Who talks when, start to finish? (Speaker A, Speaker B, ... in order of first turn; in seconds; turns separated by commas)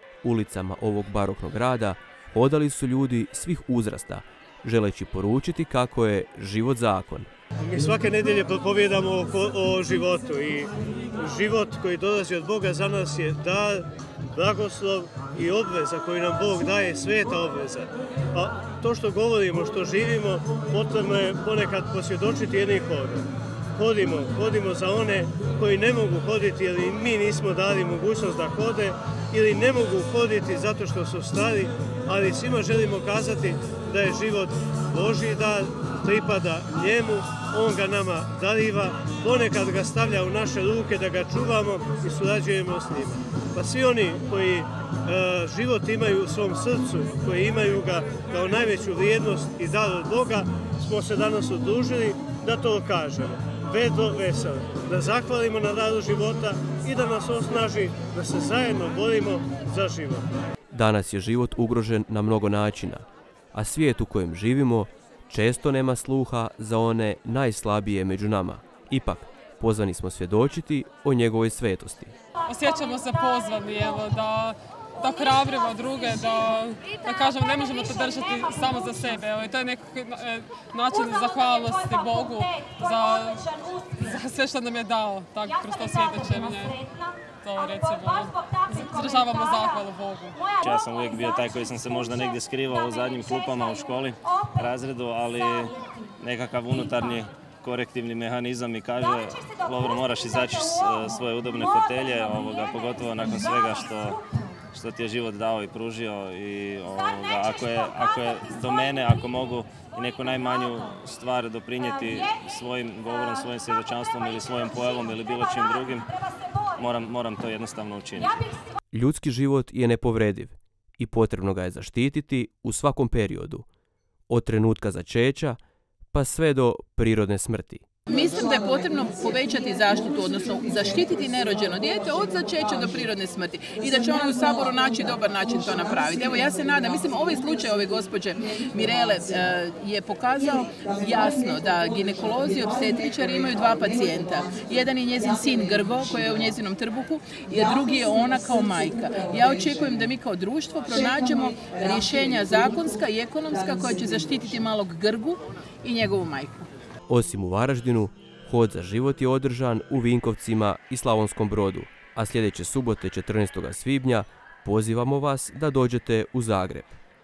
Speaker A: 0.2-7.3, Speaker B: 7.6-60.3, Speaker A: 60.7-72.1, Speaker C: 72.5-90.5, Speaker D: 90.5-104.2, Speaker D: 104.7-116.1, Speaker D: 116.7-118.4, Speaker A: 118.9-123.7, Speaker A: 124.3-125.6, Speaker A: 126.1-127.8, Speaker E: 128.1-156.7, Speaker A: 157.1-167.0